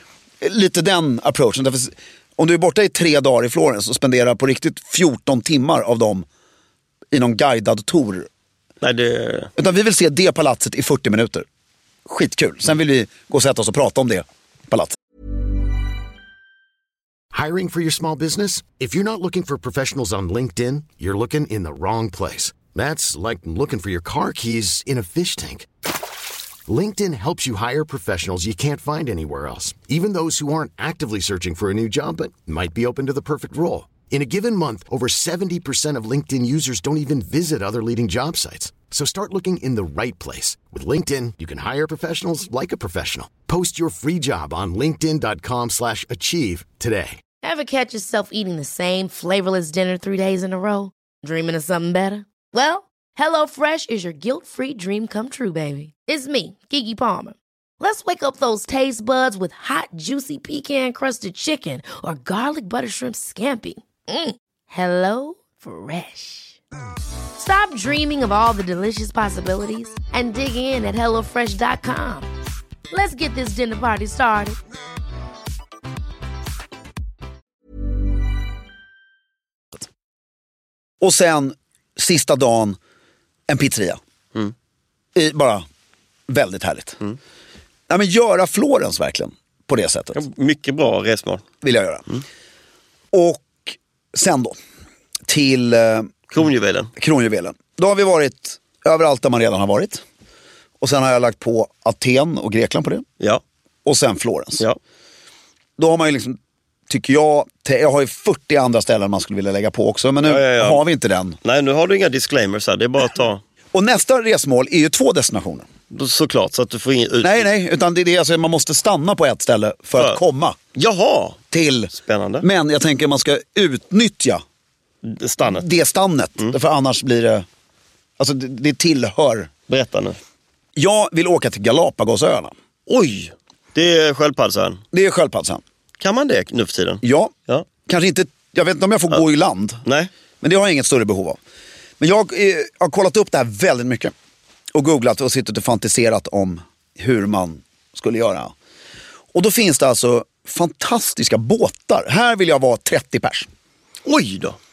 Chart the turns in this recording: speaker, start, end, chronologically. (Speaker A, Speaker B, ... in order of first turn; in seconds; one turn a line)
Speaker A: 0.4-6.2
Speaker A: 7.1-8.3
Speaker B: 8.8-9.5
Speaker A: 9.6-11.4
Speaker A: 12.1-14.9
Speaker C: 17.3-25.7
Speaker C: 26.7-47.2
Speaker D: 47.4-66.6
Speaker D: 67.3-72.3
Speaker D: 72.9-74.6
Speaker A: 81.0-82.8
Speaker A: 83.5-84.0
Speaker A: 85.1-85.6
Speaker A: 86.3-87.0
Speaker A: 87.9-90.2
Speaker B: 90.1-91.4
Speaker A: 91.6-92.1
Speaker A: 93.1-94.6
Speaker A: 95.3-96.1
Speaker B: 96.3-96.9
Speaker A: 97.0-100.0
Speaker A: 100.8-103.0
Speaker A: 103.8-104.6
Speaker A: 105.8-106.4
Speaker A: 106.9-111.4
Speaker B: 110.2-110.8
Speaker B: 111.4-113.4
Speaker A: 113.7-115.7
Speaker B: 115.9-117.5
Speaker A: 117.2-120.6
Speaker B: 120.7-121.4
Speaker A: 121.5-124.4
Speaker B: 121.9-122.4
Speaker B: 125.0-125.6
Speaker A: 125.4-127.5
Speaker A: 128.2-129.5
Speaker B: 129.7-130.2
Speaker A: 130.8-132.5
Speaker B: 132.9-134.8
Speaker A: 134.9-135.6
Speaker B: 136.0-137.7
Speaker A: 137.0-137.3
Speaker A: 137.8-139.8
Speaker B: 139.8-140.1
Speaker A: 140.4-141.4
Speaker A: 142.0-144.1
Speaker A: 144.7-148.5
Speaker A: 149.3-153.5
Speaker B: 154.0-154.6